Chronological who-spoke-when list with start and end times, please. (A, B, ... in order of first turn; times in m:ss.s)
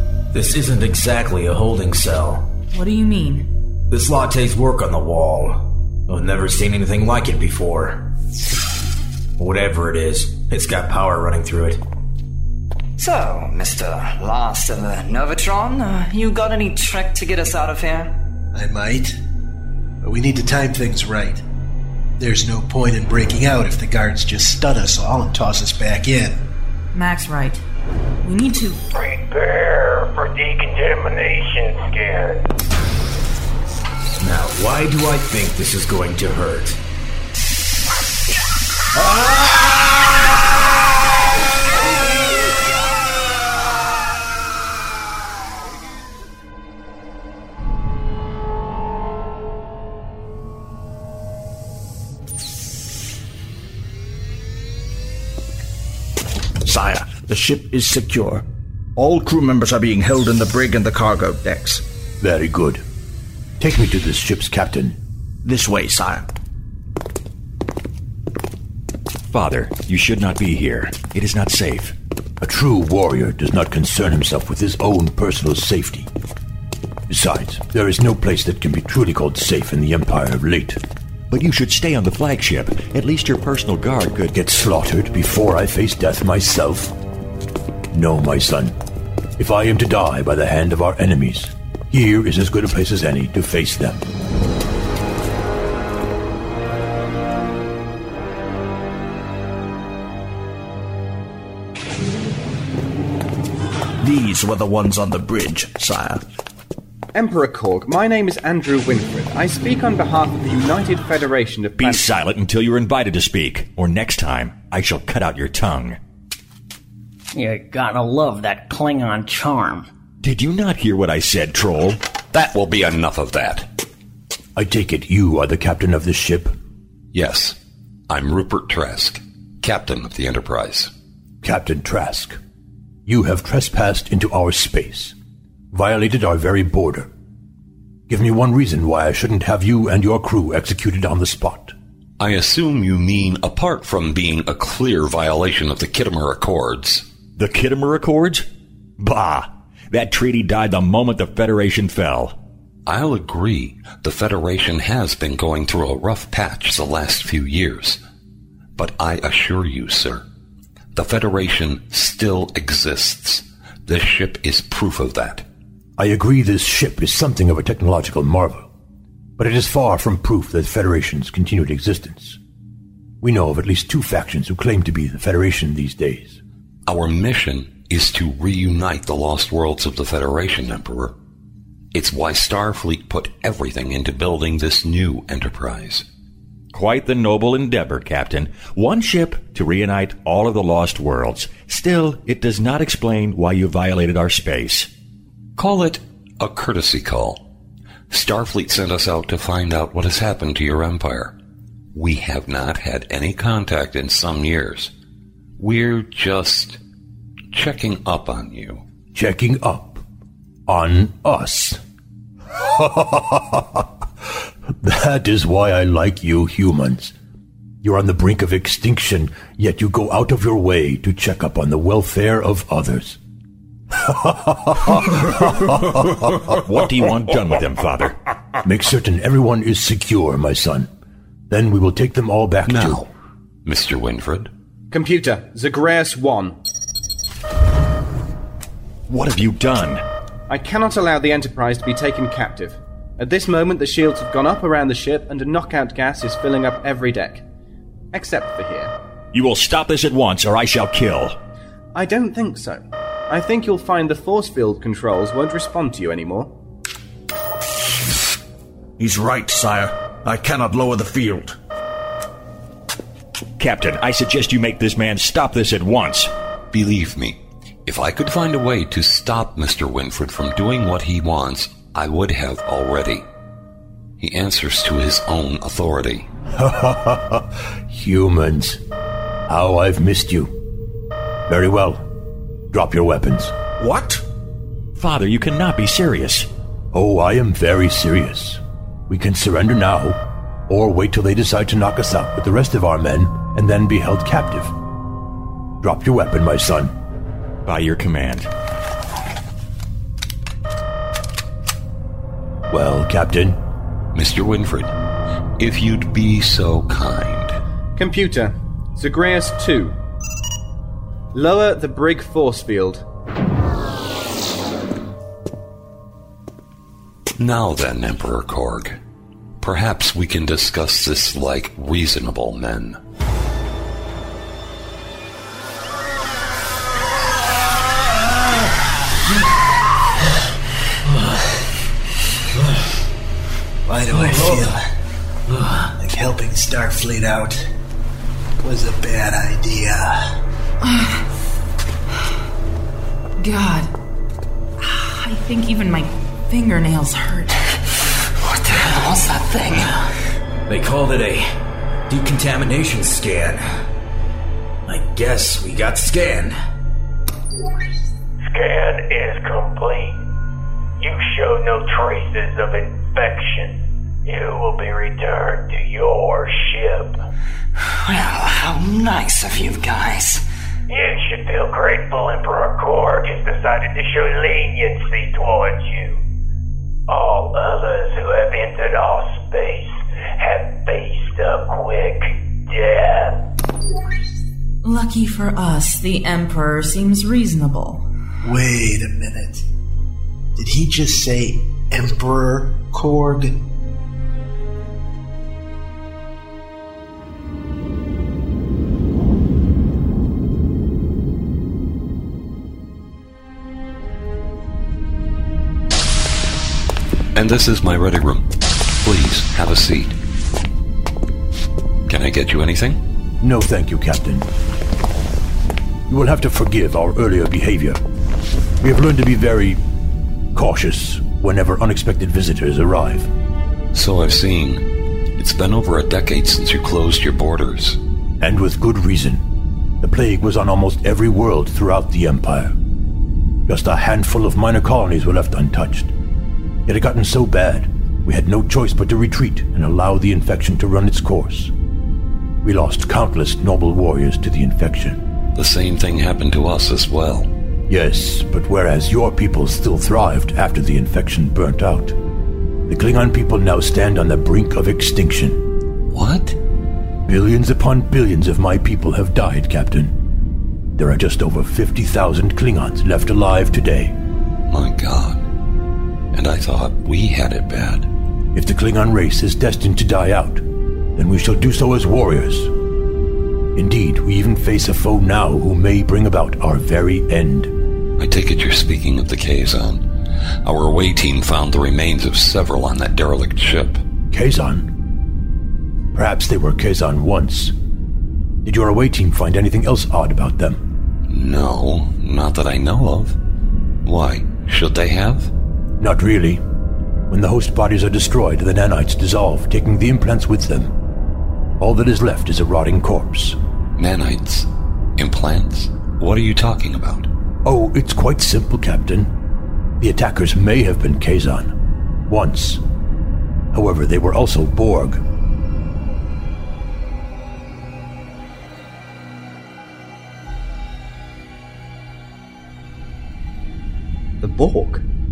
0:00.3-0:02.5 A
0:02.7-0:03.5 B
0:03.9-0:08.0 A
0:09.4-0:11.8 A
0:13.0-0:18.1 C
0:18.5-0:19.2 D
0:20.0-0:21.4 D
0:22.2-0:26.4 D
0:26.9-0:27.6 B
0:28.2-0:28.8 B
0:28.9-0:32.5 E
0:34.2-0:36.8 A
0:56.6-0:58.4 F
0:59.0-1:01.8 F
1:02.2-1:02.8 G
1:03.6-1:05.0 G
1:05.4-1:06.3 F
1:09.3-1:12.0 H
1:12.4-1:16.1 G
1:17.1-1:20.8 G
1:21.3-1:24.3 H
1:24.3-1:27.0 G
1:27.9-1:28.8 G
1:29.4-1:34.0 G
1:44.0-1:46.2 F
1:47.2-1:52.1 I
1:51.8-1:56.0 H
1:57.3-1:59.9 J
2:00.2-2:02.0 H
2:02.3-2:03.7 K
2:04.6-2:06.5 G
2:07.1-2:07.6 K
2:08.1-2:10.9 K
2:11.4-2:12.4 G
2:13.1-2:15.2 G
2:15.7-2:17.1 G
2:18.1-2:21.8 G
2:22.2-2:27.0 K
2:27.4-2:28.5 H
2:29.0-2:32.4 H
2:32.9-2:38.0 K
2:38.8-2:40.2 K
2:41.0-2:45.4 K
2:46.0-2:48.7 G
2:49.4-2:52.4 G
2:53.2-2:56.4 G
2:56.9-3:01.2 K
3:01.9-3:06.0 K
3:06.7-3:14.9 H
3:15.6-3:17.4 K
3:18.1-3:21.3 K
3:21.9-3:24.9 K
3:25.6-3:26.8 K
3:27.5-3:28.8 K
3:29.1-3:30.0 G
3:30.7-3:31.8 G
3:32.6-3:34.3 G
3:34.8-3:37.1 G
3:37.8-3:43.2 G
3:43.9-3:46.4 G
3:46.5-3:48.2 H
3:48.6-3:50.9 G
3:51.5-3:53.1 G
3:52.7-3:53.1 K
3:53.6-3:54.5 K
3:54.9-3:56.6 I
3:59.1-4:00.0 H
4:00.5-4:07.4 I
4:08.1-4:08.9 I
4:09.3-4:11.4 H
4:12.0-4:16.5 I
4:19.0-4:21.5 F
4:23.6-4:26.3 H
4:26.7-4:33.2 K
4:34.2-4:36.3 K
4:36.6-4:38.8 G
4:39.5-4:40.5 G
4:41.5-4:42.1 G
4:42.7-4:43.6 G
4:45.0-4:46.5 H
4:46.9-4:54.7 G
4:55.8-4:56.9 G
4:57.6-4:58.5 H
5:02.7-5:03.6 G
5:04.1-5:05.0 K
5:05.6-5:07.6 K
5:08.0-5:10.0 I
5:11.3-5:13.0 I
5:17.4-5:19.0 K
5:19.6-5:23.0 K
5:33.9-5:34.8 D
5:36.0-5:37.6 D
5:38.6-5:40.2 D
5:40.8-5:41.3 B
5:43.4-5:43.9 B
5:44.8-5:47.6 B
5:48.4-5:49.9 C
5:50.7-5:51.4 A
5:52.1-5:53.6 A
5:54.9-5:56.5 A
5:58.4-6:00.2 E
6:01.0-6:07.2 E
6:08.0-6:10.4 C
6:10.9-6:16.2 E
6:17.1-6:23.4 E
6:24.8-6:28.1 B
6:28.4-6:29.6 D
6:30.6-6:33.6 D
6:47.4-6:48.5 K
6:49.0-6:50.2 K
6:52.1-6:53.0 K
6:53.4-6:54.5 G
6:56.1-6:58.0 G
6:58.8-6:59.8 G
7:00.5-7:03.3 G
7:03.9-7:04.8 K
7:05.4-7:08.0 K
7:08.4-7:09.4 G
7:10.0-7:12.8 G
7:13.7-7:16.1 G
7:16.9-7:21.7 G
7:22.6-7:25.2 G
7:25.6-7:27.5 K
7:27.9-7:32.2 G
7:32.9-7:35.6 G
7:36.1-7:36.6 K
7:37.3-7:40.1 G
7:41.0-7:44.1 G
7:44.7-7:45.4 K
7:46.3-7:48.1 K
7:48.5-7:50.6 G
7:51.2-7:52.7 G
7:53.8-7:57.7 G
7:58.2-8:00.0 K
8:00.6-8:04.0 K
8:04.3-8:04.9 G
8:06.1-8:07.7 G
8:08.6-8:10.8 G
8:11.3-8:13.4 K
8:14.0-8:15.5 K
8:16.0-8:16.6 G
8:17.3-8:20.9 G
8:21.8-8:23.6 G
8:24.0-8:27.3 K
8:27.6-8:29.3 G
8:30.0-8:31.7 G
8:32.3-8:32.8 G
8:33.7-8:35.2 G
8:44.4-8:45.0 I